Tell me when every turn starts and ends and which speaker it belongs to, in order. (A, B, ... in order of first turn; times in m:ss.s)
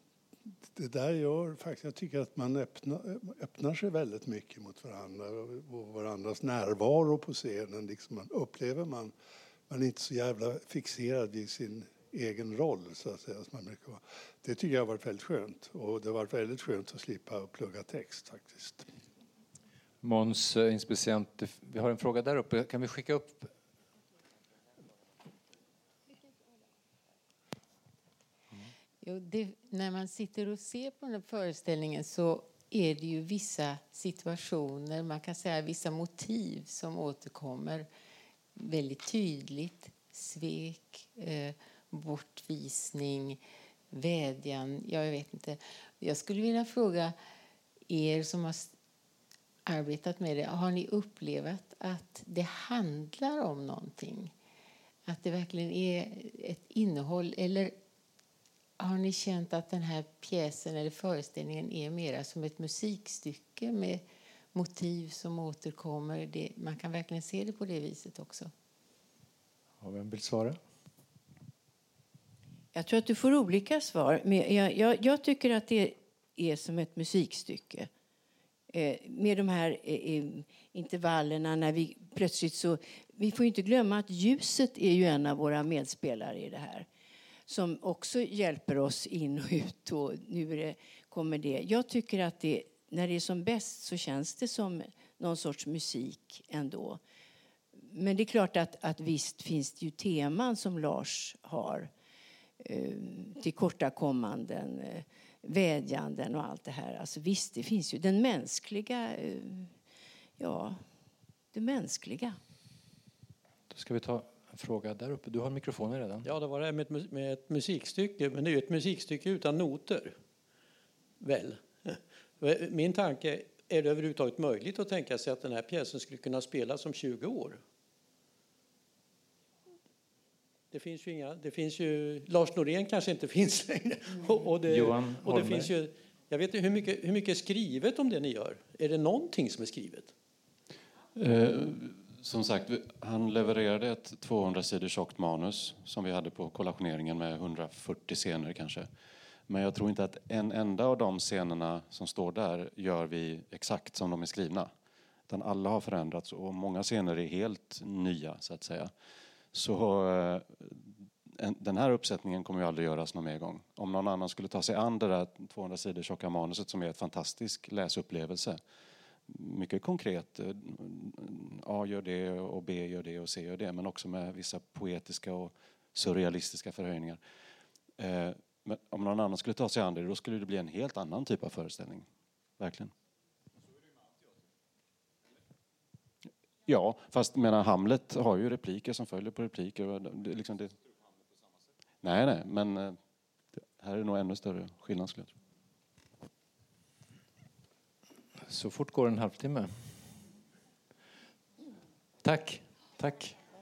0:00.7-0:09.1 A
0:09.7-0:18.9 A
0:20.0-0:23.5 B
0:29.0-0:37.9 C
0:38.6-0:43.4 C
0:43.9-0:47.1 C
0:47.9-0:48.7 C
0:49.6-0:54.3 C
0:55.0-0:57.7 C
0:58.8-1:08.5 C
1:09.8-1:10.6 B
1:12.7-1:17.9 D
1:18.7-1:26.9 D
1:27.5-1:37.0 D
1:37.8-1:41.9 D
1:42.6-1:49.8 D
1:50.4-1:50.9 D
1:51.5-1:52.4 D
1:53.7-1:56.3 B
1:56.2-2:00.2 E
2:01.2-2:07.6 E
2:10.7-2:20.1 E
2:14.7-2:15.7 B
2:21.2-2:28.9 F
2:29.5-2:34.7 F
2:35.3-2:38.9 F
2:39.5-2:48.6 F
2:49.3-2:57.2 F
2:58.0-3:02.1 F
3:02.6-3:02.9 F
3:06.7-3:10.7 F
3:12.0-3:13.0 F
3:13.6-3:15.3 F
3:18.5-3:20.2 B
3:22.2-3:23.4 B